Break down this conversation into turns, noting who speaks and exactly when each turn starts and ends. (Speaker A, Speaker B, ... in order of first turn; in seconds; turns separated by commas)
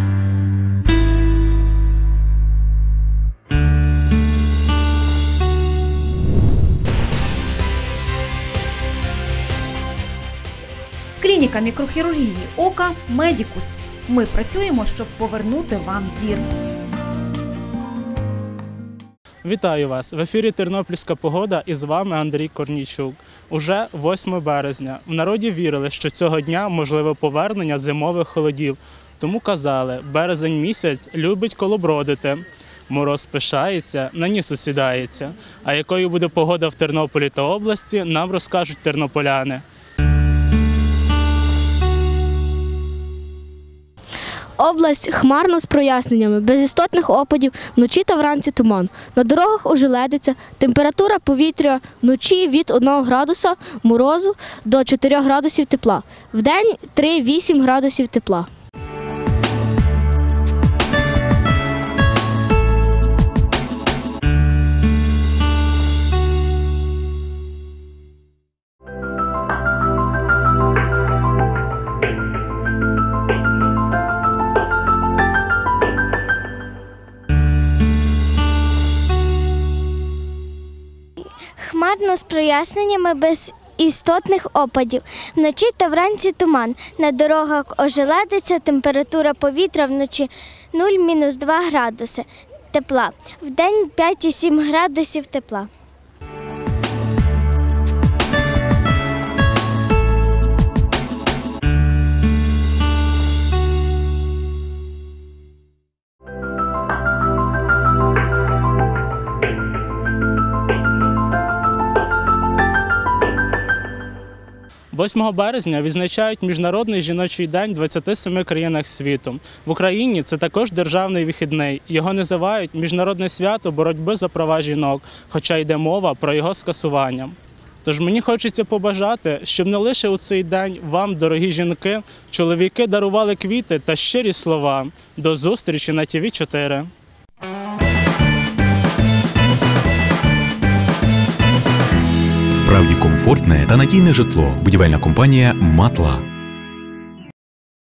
Speaker A: 11.2-16.5, Speaker B: 19.4-39.6, Speaker C: 44.6-58.5, Speaker D: 81.6-95.7, Speaker B: 114.9-136.9, Speaker E: 142.5-146.2